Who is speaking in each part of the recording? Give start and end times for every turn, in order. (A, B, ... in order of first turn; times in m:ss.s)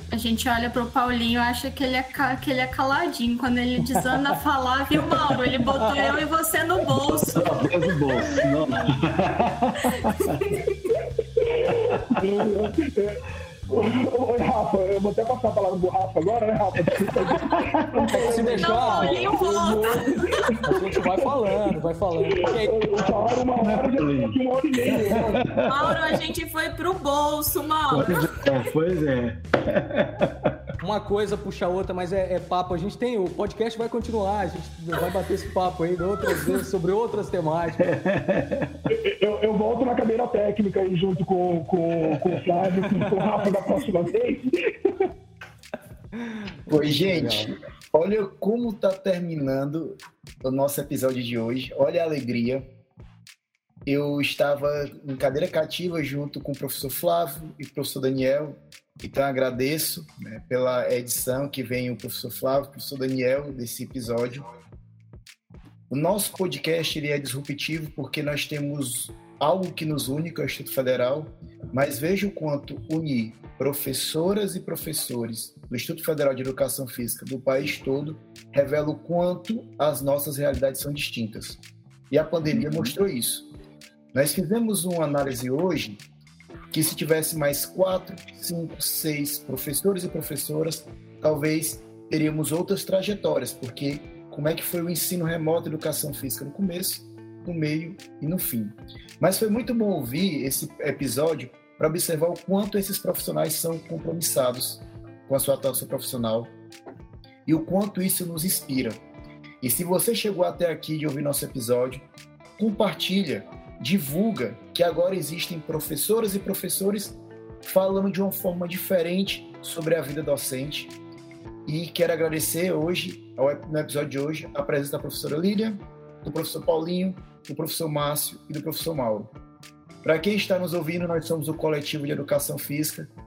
0:00.1-0:08.5 A
0:06.9-0:10.4 B
0:09.8-0:10.7 A
0:10.9-0:13.2 C
0:13.7-0:19.7 C
0:17.6-0:18.1 B
0:18.1-0:22.9 D
0:18.3-0:20.6 A
0:20.5-0:20.9 C
0:22.2-0:25.5 C
0:23.6-0:26.0 B
0:25.6-0:28.6 A
0:27.9-0:30.6 B
0:30.8-0:38.0 D
0:37.8-0:38.8 B
0:38.9-0:45.1 C
0:46.7-0:47.5 D
0:46.7-0:52.6 E
0:53.9-1:04.5 E
1:05.9-1:23.5 E
1:24.1-1:26.0 E
1:26.7-1:46.5 E
1:47.5-1:49.0 E
1:49.6-1:52.0 E
1:52.6-2:00.9 E
2:01.7-2:09.3 E
2:10.0-2:13.1 E